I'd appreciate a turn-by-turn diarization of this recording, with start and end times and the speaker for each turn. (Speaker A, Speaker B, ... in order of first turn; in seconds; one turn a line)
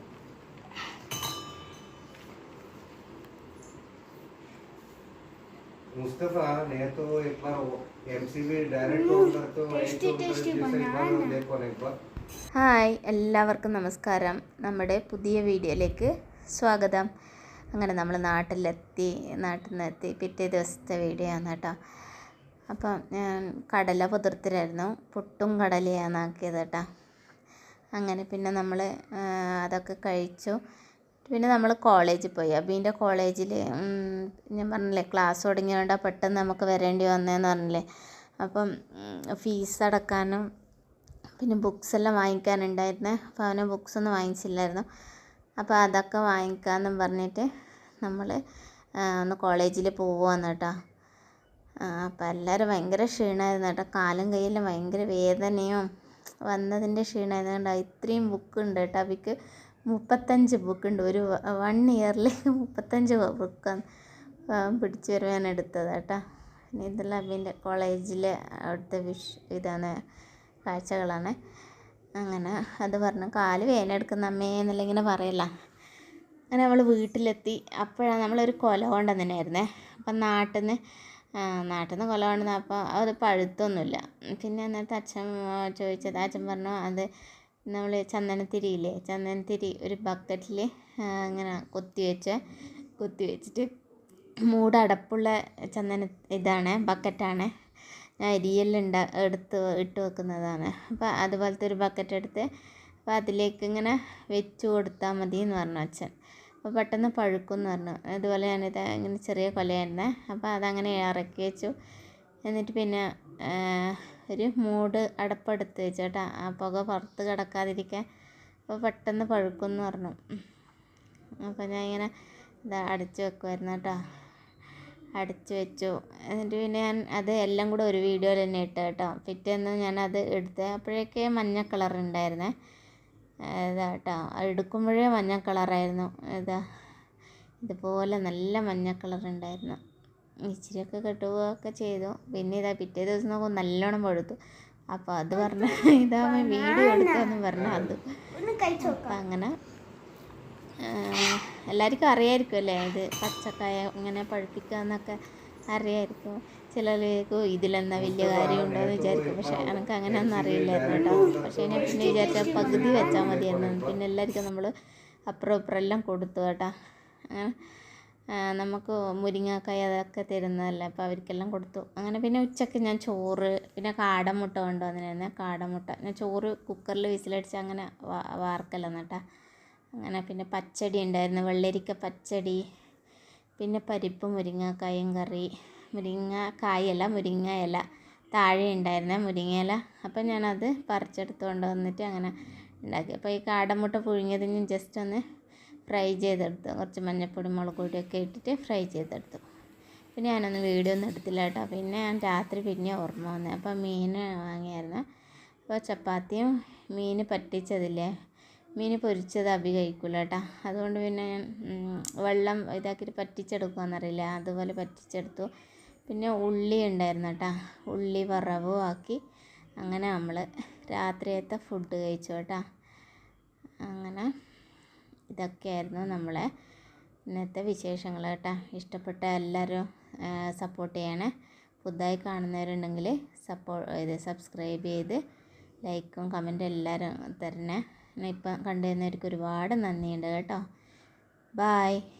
Speaker A: 5.9-11.9
Speaker B: 8.8-11.4
Speaker C: 12.5-17.1
Speaker C: 17.7-21.7
Speaker C: 22.7-26.8
Speaker C: 27.9-30.6
Speaker C: 31.2-37.8
Speaker C: 38.4-40.4
Speaker C: 41.4-44.9
Speaker C: 45.6-47.5
Speaker C: 48.0-48.4
Speaker C: 49.1-50.7
Speaker C: 51.8-55.9
Speaker C: 56.5-59.3
Speaker C: 59.9-63.8
Speaker C: 64.5-66.2
Speaker C: 66.7-70.0
Speaker C: 70.7-71.3
Speaker C: 72.2-75.5
Speaker C: 76.5-80.8
Speaker C: 81.4-87.1
Speaker C: 87.7-92.4
Speaker C: 93.0-93.7
Speaker C: 94.5-97.5
Speaker C: 98.2-102.5
Speaker C: 103.1-106.1
Speaker C: 106.6-111.7
Speaker C: 112.5-118.0
Speaker C: 118.7-120.2
Speaker C: 121.4-122.1
Speaker C: 122.7-124.0
Speaker C: 125.2-132.5
Speaker C: 133.6-136.6
Speaker C: 137.6-139.8
Speaker C: 140.5-144.4
Speaker C: 144.9-148.1
Speaker B: 145.3-147.4
Speaker A: 147.5-147.9
Speaker B: 148.3-149.2
Speaker C: 148.8-149.5
Speaker C: 150.8-155.2
Speaker C: 155.7-164.7
Speaker A: 158.0-163.9
Speaker B: 160.9-163.4
Speaker C: 165.3-166.7
Speaker C: 168.4-179.2
Speaker C: 180.0-182.6
Speaker C: 183.6-187.8
Speaker C: 188.3-192.3
Speaker C: 192.8-195.2
Speaker C: 195.9-199.4
Speaker C: 200.2-205.0
Speaker C: 205.7-208.1
Speaker C: 208.8-215.5
Speaker C: 216.1-219.2
Speaker C: 219.8-222.6
Speaker C: 223.8-224.3
Speaker C: 225.3-226.5
Speaker C: 227.3-231.3
Speaker C: 231.8-235.2
Speaker C: 235.8-240.6
Speaker C: 241.6-242.0